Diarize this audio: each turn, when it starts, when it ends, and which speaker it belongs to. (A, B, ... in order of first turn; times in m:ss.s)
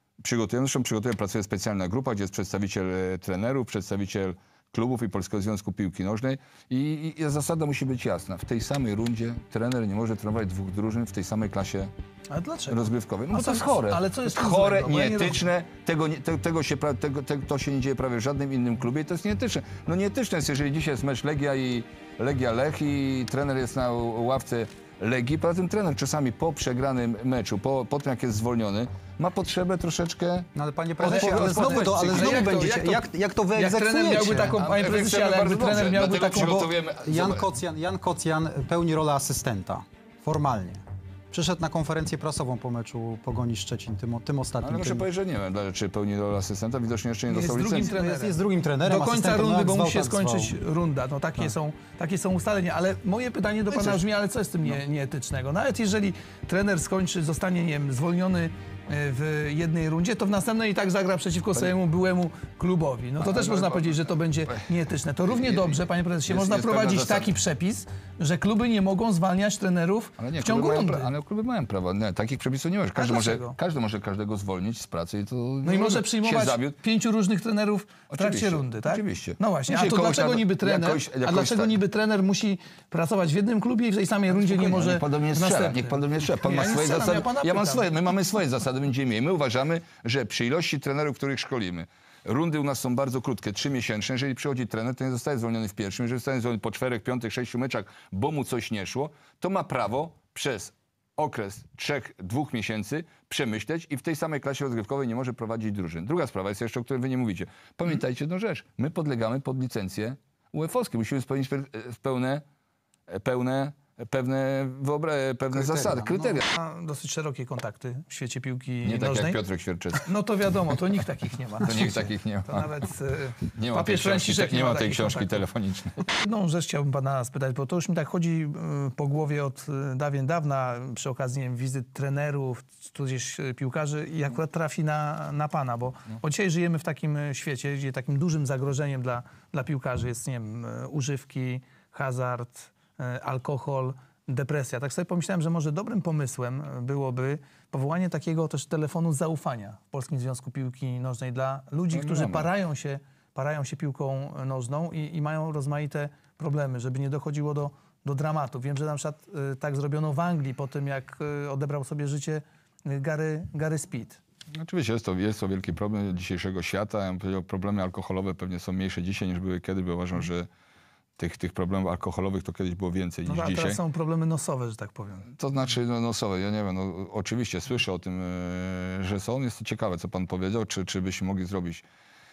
0:00.2-0:11.9 A
0:12.3-0:15.4 B
0:12.7-0:30.5 A
0:30.5-0:34.6 C
0:31.0-0:32.5 A
0:31.0-0:36.7 B
0:34.6-0:37.4 A
0:36.3-0:45.1 C
0:44.6-0:47.9 A
0:47.3-1:11.1 B
0:47.8-0:50.6 C
1:03.2-1:04.6 A
1:05.3-1:07.3 A
1:10.2-1:16.8 A
1:13.0-1:13.5 B
1:15.6-1:27.9 B
1:18.1-1:21.8 A
1:24.3-1:52.4 A
1:53.1-1:56.4 A
1:55.6-1:56.2 C
1:56.4-1:59.4 B
1:58.8-2:00.1 A
2:00.0-2:05.4 B
2:01.6-2:02.7 A
2:03.5-2:06.1 A
2:06.2-2:44.2 B
2:31.9-2:32.5 A
2:44.6-2:50.5 A
2:51.2-2:53.8 A
2:53.2-2:55.3 B
2:55.3-3:01.8 A